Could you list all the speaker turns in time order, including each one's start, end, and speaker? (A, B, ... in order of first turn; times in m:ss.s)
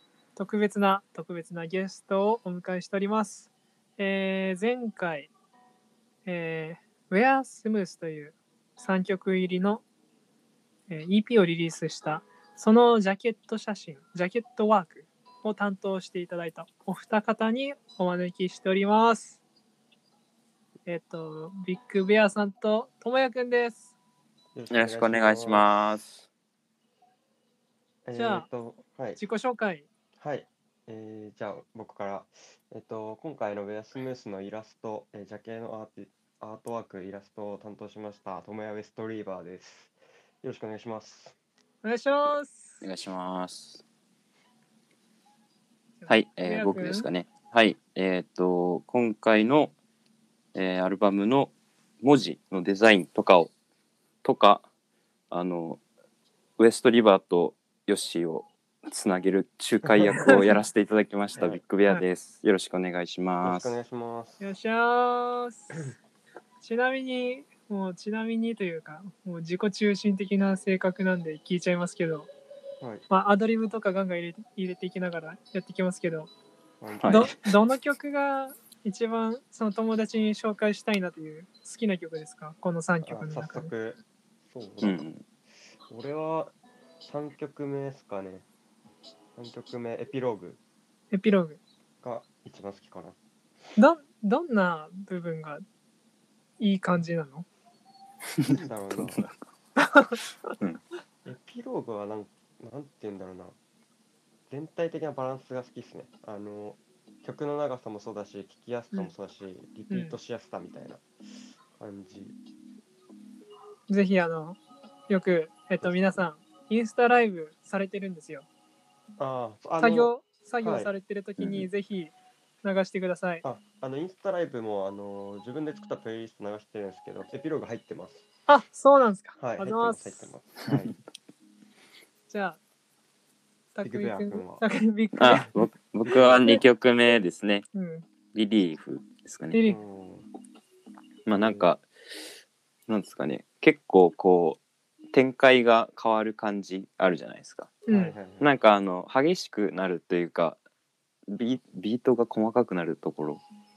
0:00.4-0:05.3 A
0:06.2-0:09.8 A
0:10.9-0:19.4 A
0:20.8-0:23.9 A
0:24.5-0:25.8 B
0:24.7-0:26.2 C
0:28.0-0:29.2 B
0:28.1-0:28.5 A
0:29.2-0:29.9 A
0:30.2-0:41.4 B
0:41.8-0:42.8 A
0:42.8-0:43.8 C
0:46.0-0:47.1 A
0:46.1-0:49.7 C
0:50.5-0:53.5 C
0:54.2-0:54.6 C
0:55.3-0:55.8 C
0:56.6-1:03.8 C
0:59.8-1:00.5 B
1:01.4-1:01.6 B
1:03.4-1:04.5 B
1:04.4-1:05.9 A
1:06.6-1:12.3 A
1:13.1-1:16.3 A
1:16.8-1:17.3 B
1:17.0-1:17.4 C
1:17.1-1:23.7 A
1:23.0-1:25.0 B
1:24.8-1:25.2 C
1:25.9-1:26.5 B
1:27.0-1:28.5 B
1:29.4-1:30.6 B
1:31.1-1:31.6 A
1:32.0-1:33.2 B
1:33.8-1:35.6 A
1:36.6-1:37.4 A
1:38.4-1:39.3 C
1:38.5-1:39.2 B
1:39.8-1:40.2 A
1:41.2-1:43.6 B
1:44.5-1:51.0 B
1:49.9-1:50.1 A
1:51.7-1:52.4 B
1:53.9-1:54.6 A
1:55.1-1:58.4 A
1:55.8-1:56.2 B
1:59.2-2:00.9 B
1:59.8-2:03.4 A
2:01.4-2:01.7 C
2:03.4-2:08.2 B
2:08.5-2:10.3 A
2:09.4-2:10.9 B
2:12.3-2:12.6 A
2:13.7-2:15.5 A
2:13.8-2:14.6 B
2:15.2-2:17.6 C
2:16.1-2:16.5 B
2:17.7-2:18.0 A
2:18.3-2:19.6 C
2:19.5-2:19.8 A
2:19.6-2:20.3 B
2:21.2-2:21.8 C
2:21.3-2:21.7 B
2:22.9-2:24.6 C
2:25.1-2:27.7 C
2:27.9-2:28.2 A
2:27.9-2:28.5 B
2:28.4-2:30.6 C
2:31.3-2:33.4 C